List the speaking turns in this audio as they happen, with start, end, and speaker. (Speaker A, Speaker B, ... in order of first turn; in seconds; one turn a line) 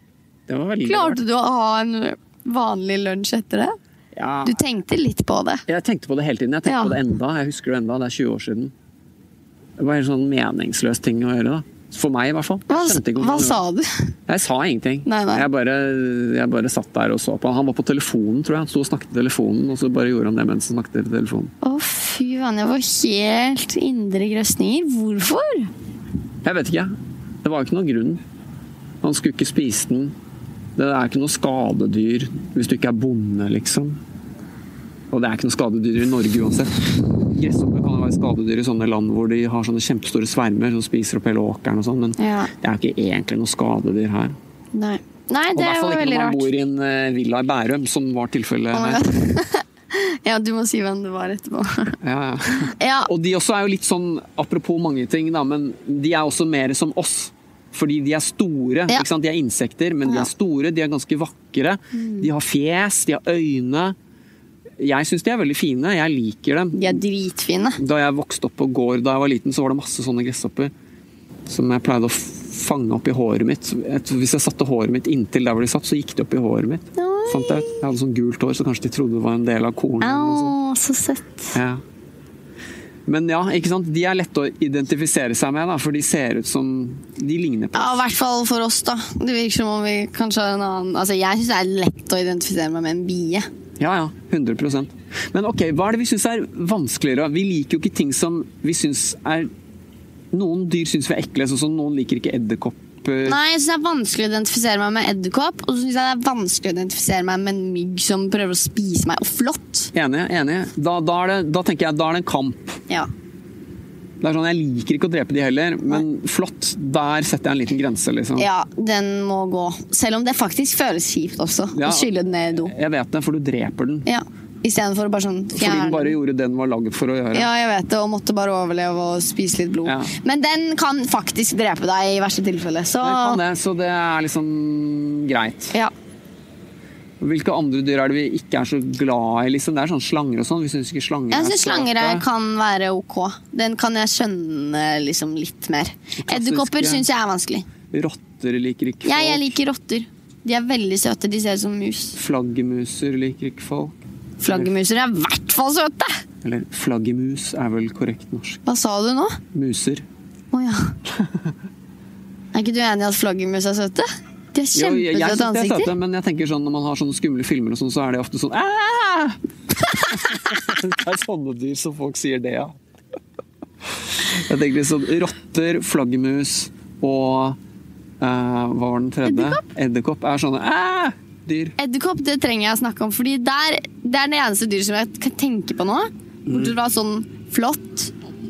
Speaker A: 0.5-1.2
Speaker B: 0.8-3.8
Speaker A: 4.2-4.6
Speaker B: 4.4-5.7
Speaker A: 5.7-8.7
Speaker B: 6.7-7.0
Speaker A: 9.8-13.6
Speaker B: 12.7-14.1
Speaker A: 14.3-21.5
Speaker B: 15.1-15.5
Speaker B: 21.6-25.7
Speaker A: 26.4-26.9
Speaker A: 27.4-28.2
Speaker A: 29.0-30.1
Speaker A: 30.8-34.0
Speaker A: 35.1-44.4
Speaker B: 42.2-42.5
Speaker B: 44.7-46.5
Speaker A: 45.5-49.0
Speaker B: 48.7-52.0
Speaker A: 52.0-64.0
Speaker B: 52.6-53.1
Speaker B: 61.9-62.3
Speaker A: 64.8-67.0
Speaker B: 66.7-67.8
Speaker A: 67.8-70.7
Speaker A: 71.5-80.5
Speaker B: 77.0-77.8
Speaker B: 80.0-81.6
Speaker A: 81.5-81.8
Speaker A: 83.1-88.0
Speaker B: 87.8-93.5
Speaker A: 93.8-99.5
Speaker A: 100.3-103.4
Speaker B: 103.3-109.9
Speaker A: 109.9-112.8
Speaker A: 114.2-118.5
Speaker B: 118.4-122.7
Speaker A: 121.7-124.1
Speaker B: 124.1-126.2
Speaker A: 125.5-127.5
Speaker B: 127.3-133.4
Speaker A: 129.8-130.1
Speaker A: 133.0-135.7
Speaker A: 137.2-142.2
Speaker B: 141.3-147.7
Speaker A: 146.2-147.1
Speaker A: 147.9-149.5
Speaker B: 149.0-152.2
Speaker A: 152.2-154.0
Speaker B: 154.4-156.2
Speaker A: 154.5-154.7
Speaker A: 156.4-158.6
Speaker B: 158.7-159.4
Speaker A: 159.5-160.1
Speaker B: 160.5-161.0
Speaker B: 162.5-165.9
Speaker A: 164.7-169.4
Speaker A: 170.1-172.8
Speaker A: 174.1-177.6
Speaker A: 178.2-181.8
Speaker B: 179.2-179.6
Speaker B: 181.8-188.1
Speaker A: 186.5-186.8